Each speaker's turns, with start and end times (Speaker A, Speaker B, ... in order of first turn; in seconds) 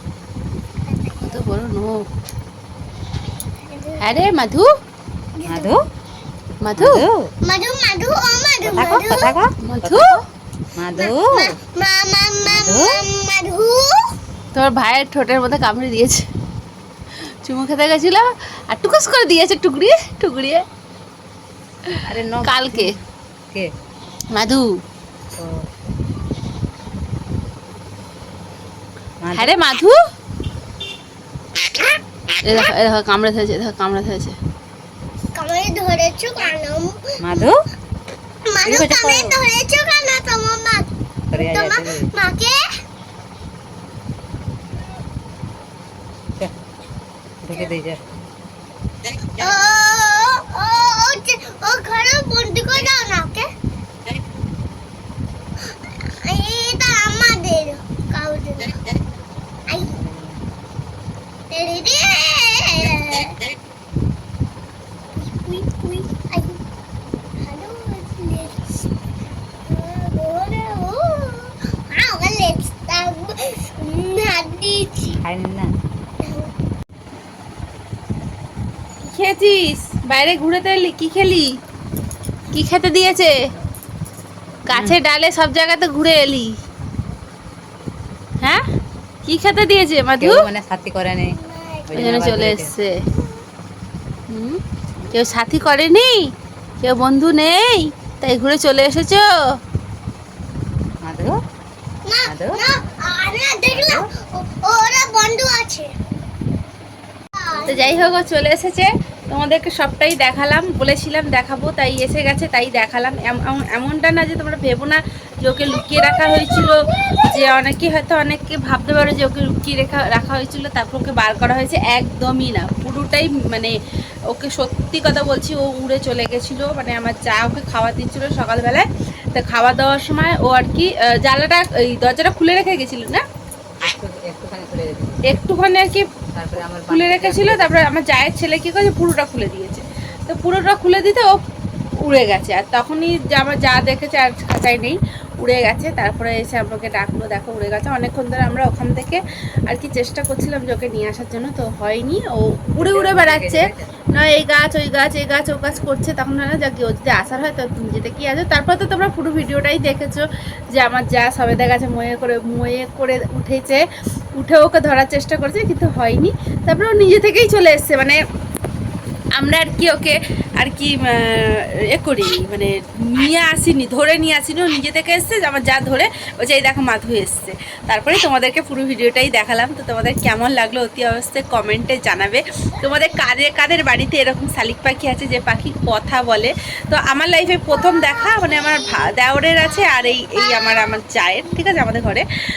Speaker A: 0.8-1.4, 3.6-4.2, 5.3-5.7, 7.4-9.4, 10.9-14.1, 35.3-37.5, 38.4-42.6, 49.4-53.5, 55.7-58.8, 59.7-60.0, 61.5-63.4, 65.2-66.6, 67.4-68.9, 69.7-75.2, 76.2-76.5, 91.4-91.8, 102.0-105.9, 107.3-107.9, 115.8-117.4, 187.9-189.1, 189.8-190.4
Speaker B: 1.3-2.0, 4.0-4.7, 6.6-7.0, 9.6-10.2, 14.5-16.2, 17.4-20.6, 21.9-22.9, 24.3-24.7, 29.3-30.0, 32.4-34.4, 79.0-81.5, 82.5-83.3, 84.7-86.5, 89.2-90.4, 91.9-93.0, 94.3-94.6, 95.1-96.2, 96.8-99.3, 107.7-123.8, 124.3-133.2, 135.2-136.0, 136.9-141.4, 142.0-163.8, 164.3-168.2, 169.3-192.2
Speaker C: 5.5-5.8, 6.8-7.3, 8.6-10.2, 10.8-11.5, 12.4-13.0, 22.0-23.7, 29.2-29.5, 37.2-37.6, 38.6-39.4, 41.3-42.1, 47.4-48.0, 59.8-60.4, 75.2-75.7, 84.7-85.0, 90.2-92.7, 101.0-101.3, 102.3-102.6, 103.7-104.0, 107.5-108.0, 133.8-135.2, 136.3-137.7, 152.8-153.9